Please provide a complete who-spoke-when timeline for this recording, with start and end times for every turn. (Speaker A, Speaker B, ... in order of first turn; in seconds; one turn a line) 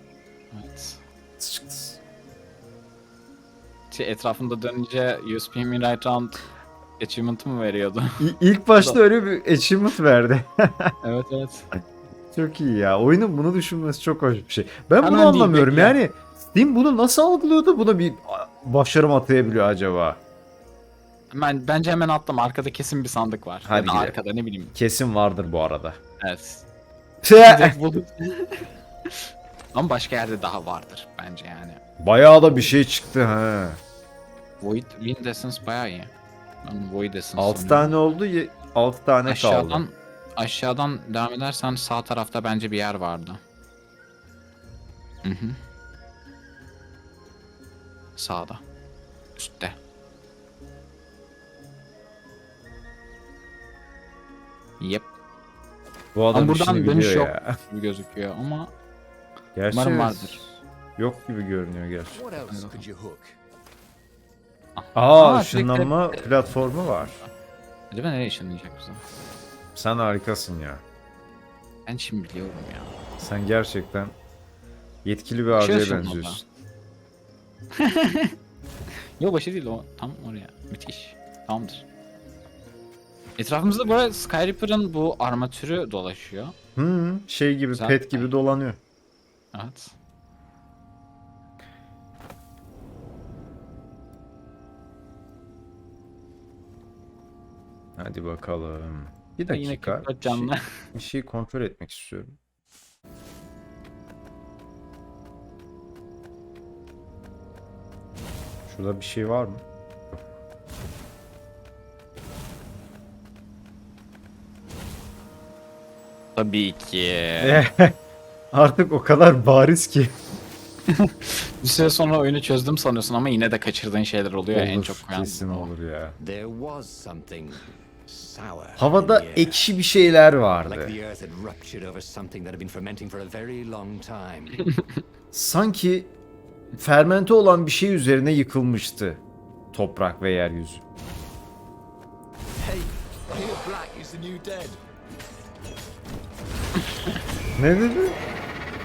Speaker A: 0.5-1.0
Speaker B: 1.4-2.0
Speaker A: 3.9-6.5
Speaker A: 7.0-9.0
Speaker B: 8.2-10.9
Speaker A: 11.0-11.7
Speaker B: 12.3-20.2
Speaker A: 15.0-16.0
Speaker A: 21.3-24.7
Speaker B: 23.6-24.2
Speaker B: 24.7-26.0
Speaker A: 26.2-26.6
Speaker B: 27.2-27.8
Speaker A: 27.4-31.8
Speaker B: 32.0-33.8
Speaker A: 32.5-32.7
Speaker A: 34.6-36.1
Speaker A: 36.6-38.0
Speaker B: 37.4-39.8
Speaker A: 39.2-43.4
Speaker A: 45.2-45.6
Speaker A: 48.1-48.6
Speaker A: 49.4-49.8
Speaker A: 54.8-55.1
Speaker B: 56.1-57.5
Speaker A: 56.3-58.7
Speaker B: 59.5-62.2
Speaker A: 59.7-60.4
Speaker C: 62.1-63.4
Speaker A: 62.5-62.8
Speaker A: 64.8-67.3
Speaker B: 64.9-67.2
Speaker A: 67.9-69.0
Speaker B: 69.7-70.8
Speaker A: 71.8-72.9
Speaker B: 73.2-74.1
Speaker B: 75.0-76.4
Speaker A: 75.5-76.4
Speaker A: 77.7-78.3
Speaker A: 79.2-81.8
Speaker A: 83.4-86.5
Speaker B: 86.8-88.8
Speaker A: 87.7-88.3
Speaker A: 89.5-89.9
Speaker B: 98.0-102.3
Speaker A: 99.5-100.6
Speaker B: 108.7-110.2
Speaker A: 116.3-117.6
Speaker B: 117.4-117.9
Speaker B: 118.5-120.1
Speaker A: 121.0-125.7
Speaker B: 124.5-126.2
Speaker C: 126.2-129.7
Speaker B: 128.8-130.9
Speaker C: 130.6-134.6
Speaker B: 135.3-136.1
Speaker B: 136.8-139.2
Speaker B: 139.7-140.8
Speaker C: 142.6-144.8
Speaker B: 147.6-148.2